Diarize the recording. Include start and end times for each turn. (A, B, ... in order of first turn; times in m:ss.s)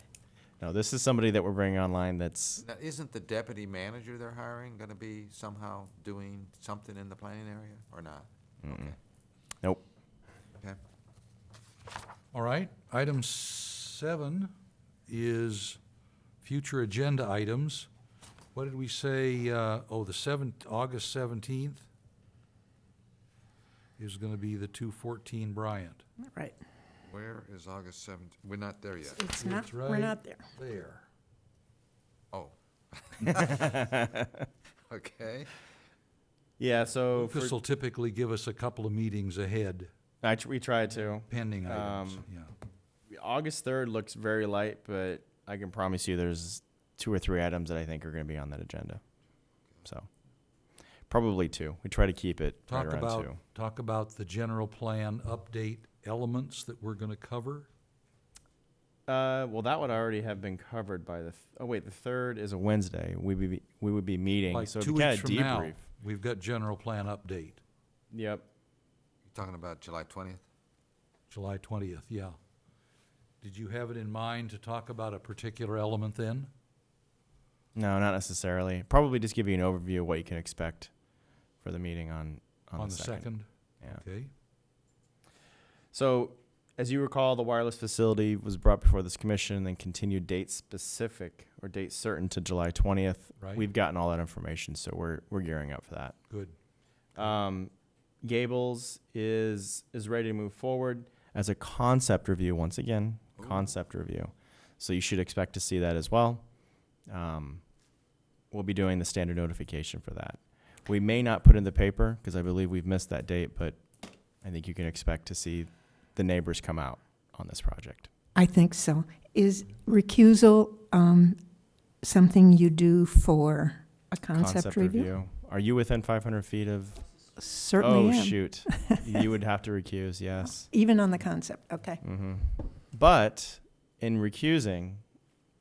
0:00.6-0:02.6 A
0:02.6-0:09.0 B
0:08.6-0:08.9 A
0:12.3-0:14.5 C
0:15.1-0:15.8 C
0:16.4-0:17.9 C
0:18.5-0:21.8 C
0:24.0-0:26.0 C
0:26.2-0:26.6 D
0:27.1-0:29.2 B
0:29.1-0:30.4 D
0:29.4-0:31.0 C
0:32.3-0:34.0 B
0:33.3-0:34.4 A
0:34.9-0:35.5 B
0:36.6-0:37.5 A
0:37.1-0:39.9 C
0:40.2-0:42.2 A
0:41.2-0:42.5 C
0:43.1-0:49.0 A
0:51.1-0:53.4 A
0:52.7-0:57.7 C
0:59.1-1:05.8 A
1:04.5-1:07.6 C
1:08.1-1:08.4 A
1:09.3-1:10.4 B
1:11.3-1:12.4 C
1:13.4-1:16.5 C
1:17.7-1:20.9 A
1:21.6-1:23.3 A
1:22.8-1:24.3 C
1:25.9-1:36.2 A
1:33.4-1:33.7 C
1:36.3-1:36.5 C
1:37.1-1:37.7 A
1:38.2-1:46.4 A
1:43.4-1:43.7 B
1:47.1-1:47.6 A
1:48.5-1:53.8 A
1:54.4-1:58.1 A
1:58.4-2:01.4 D
2:02.0-2:05.1 D
2:04.3-2:07.0 A
2:07.4-2:09.0 D
2:07.8-2:10.7 A
2:10.7-2:12.0 D
2:12.0-2:15.0 A